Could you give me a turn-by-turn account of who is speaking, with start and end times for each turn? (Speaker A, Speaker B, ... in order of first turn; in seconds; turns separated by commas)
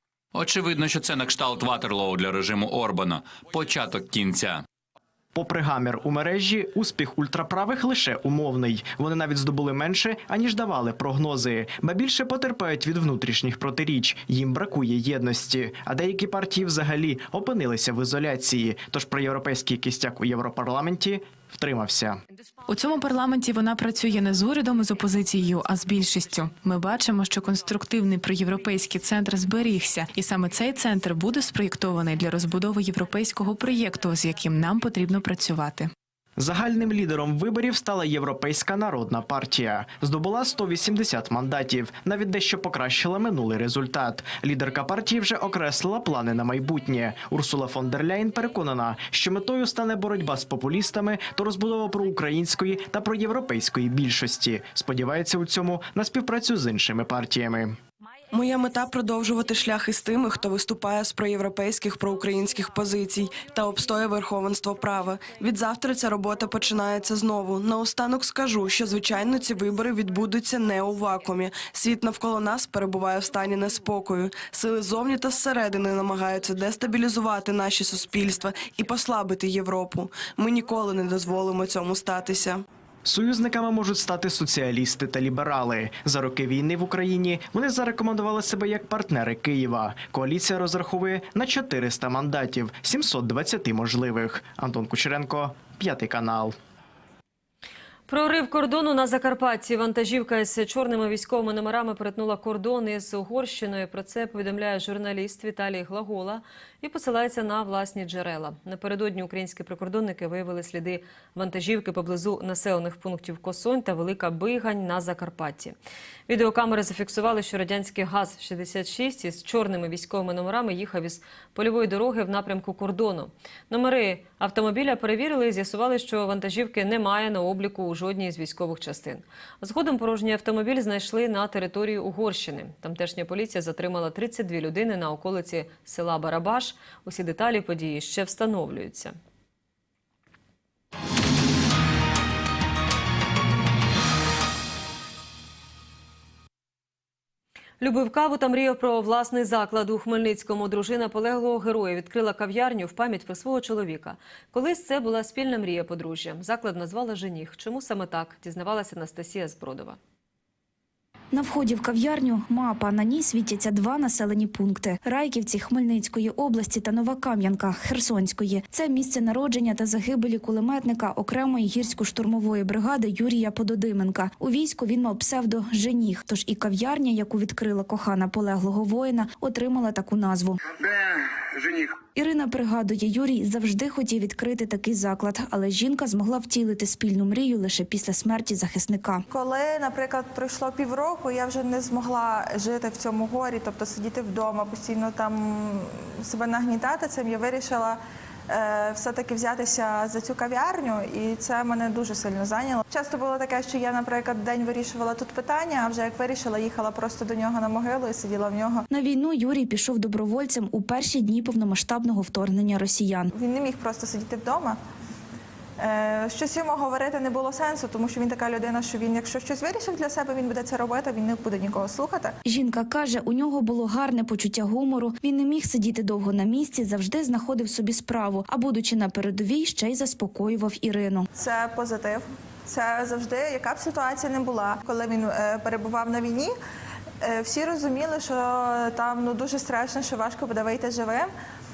Speaker A: 0.3-4.6, Speaker B: 5.3-22.2, Speaker C: 22.7-35.9, Speaker B: 36.4-57.8, Speaker D: 58.3-82.6, Speaker B: 83.0-96.5, Speaker E: 98.1-115.8, Speaker E: 116.3-139.1, Speaker E: 147.8-160.0, Speaker F: 161.3-180.6, Speaker F: 182.1-189.2, Speaker G: 189.3-208.8, Speaker F: 208.9-213.3, Speaker G: 213.3-214.8, Speaker G: 215.8-222.3, Speaker F: 222.4-231.3, Speaker G: 231.3-236.5, Speaker G: 237.2-241.3